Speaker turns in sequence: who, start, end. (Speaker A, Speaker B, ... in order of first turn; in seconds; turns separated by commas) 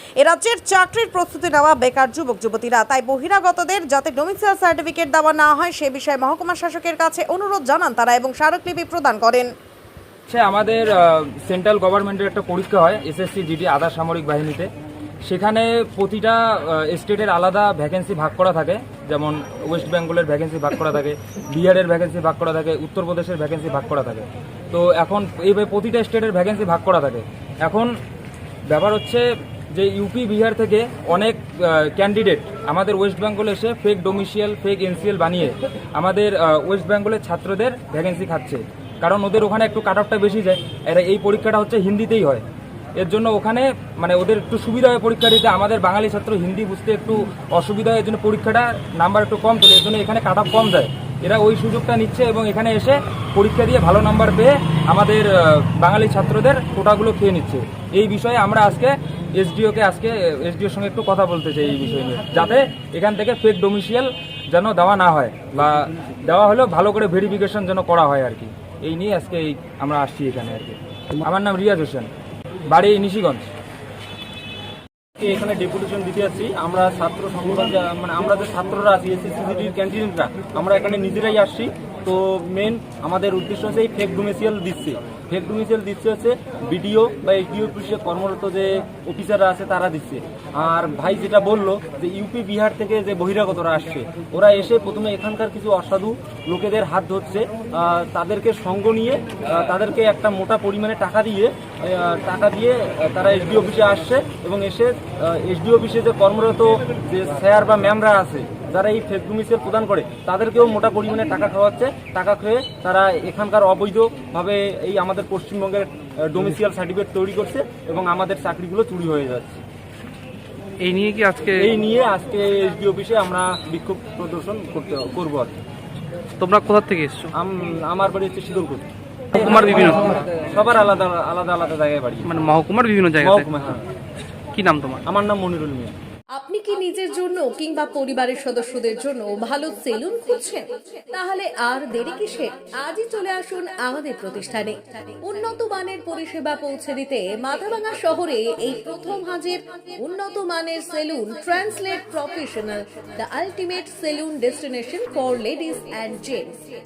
Speaker A: 0.2-9.5, Speaker B: 10.3-14.7, Speaker B: 15.2-27.9, Speaker B: 28.7-42.4, Speaker B: 43.0-72.1, Speaker B: 72.7-73.5, Speaker C: 75.2-119.6, Speaker D: 120.8-121.7, Speaker C: 121.6-125.5, Speaker D: 126.4-127.3, Speaker C: 127.3-132.2, Speaker D: 129.4-130.2, Speaker D: 132.2-133.5, Speaker C: 133.2-133.8, Speaker D: 134.5-135.0, Speaker C: 135.1-135.9, Speaker E: 136.3-156.6